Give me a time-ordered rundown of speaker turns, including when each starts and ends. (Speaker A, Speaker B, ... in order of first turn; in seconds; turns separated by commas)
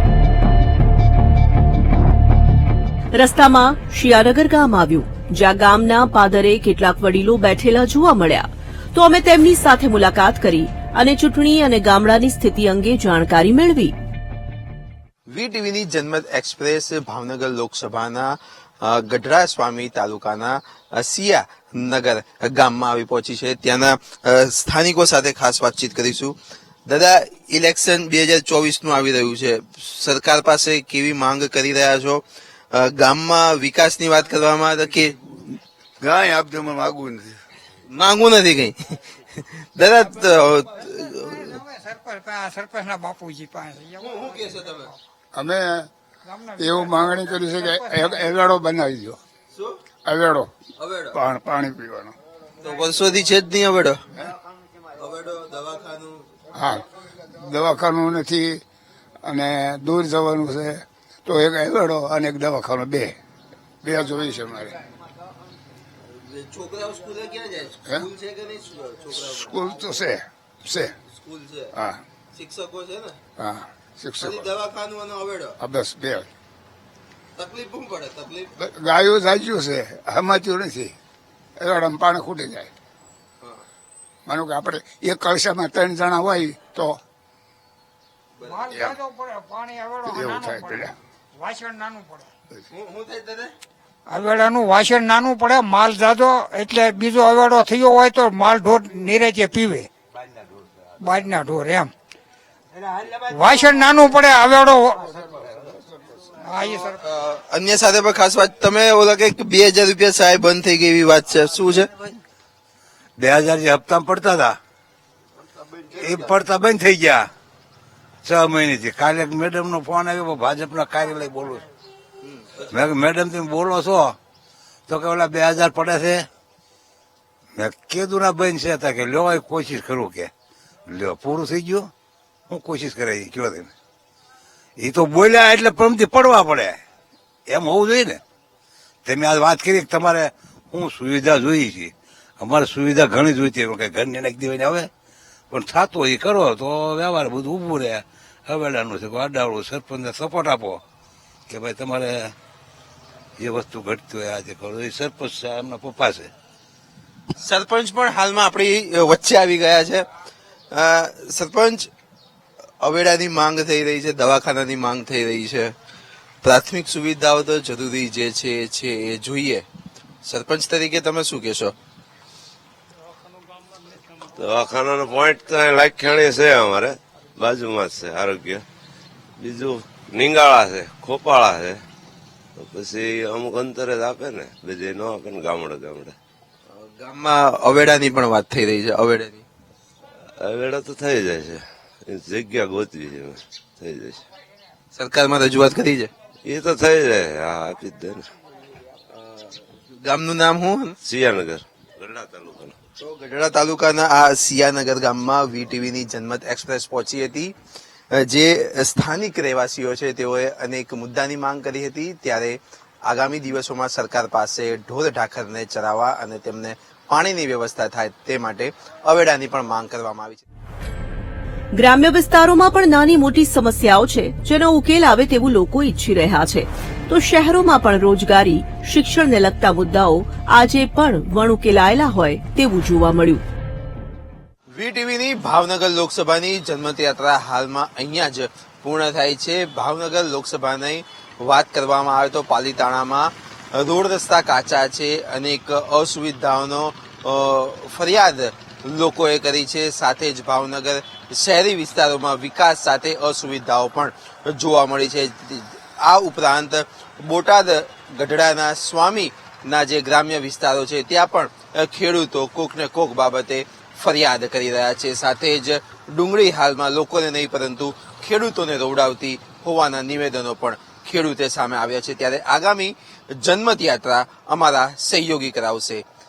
Speaker A: 3.1-13.9, Speaker B: 15.3-26.3, Speaker B: 26.9-35.1, Speaker C: 36.3-36.8, Speaker B: 37.9-39.0, Speaker B: 39.8-41.5, Speaker D: 41.0-44.9, Speaker B: 44.0-44.9, Speaker C: 45.4-45.9, Speaker D: 46.3-48.2, Speaker C: 46.6-49.2, Speaker C: 50.1-50.5, Speaker B: 50.8-51.2, Speaker C: 51.1-52.1, Speaker B: 52.6-54.0, Speaker B: 55.0-56.3, Speaker C: 56.5-56.9, Speaker C: 57.4-58.6, Speaker C: 59.2-63.1, Speaker C: 63.8-64.7, Speaker B: 66.3-69.6, Speaker C: 69.2-70.9, Speaker B: 71.1-71.7, Speaker C: 71.7-72.0, Speaker B: 72.3-73.2, Speaker C: 73.4-74.5, Speaker B: 74.2-75.6, Speaker C: 75.6-76.3, Speaker B: 77.4-78.5, Speaker C: 78.6-80.9, Speaker C: 81.6-82.7, Speaker C: 84.3-87.0, Speaker D: 88.4-92.3, Speaker C: 90.1-90.9, Speaker B: 92.7-93.5, Speaker D: 94.1-99.9, Speaker D: 101.0-101.9, Speaker D: 103.3-105.1, Speaker D: 106.4-107.0, Speaker B: 106.6-111.9, Speaker E: 113.2-114.6, Speaker E: 116.0-117.3, Speaker E: 118.2-121.7, Speaker E: 122.7-124.2, Speaker E: 124.9-126.3, Speaker E: 127.6-130.3, Speaker E: 130.9-131.9, Speaker E: 132.5-133.7, Speaker E: 134.8-136.8, Speaker E: 137.5-138.2, Speaker E: 139.1-144.9, Speaker E: 145.5-150.8, Speaker E: 151.5-152.3, Speaker E: 153.4-156.3, Speaker B: 157.4-160.1, Speaker B: 160.7-161.9, Speaker B: 162.8-165.7, Speaker B: 166.4-169.6, Speaker B: 170.2-171.7, Speaker F: 174.4-178.6, Speaker F: 179.4-181.8, Speaker F: 182.6-186.1, Speaker B: 186.8-189.4, Speaker F: 190.4-194.2, Speaker B: 194.9-196.1, Speaker F: 196.4-198.3, Speaker B: 199.2-201.0, Speaker F: 201.0-202.8, Speaker B: 203.0-207.5, Speaker B: 208.1-220.4, Speaker A: 221.8-233.4, Speaker B: 234.8-276.0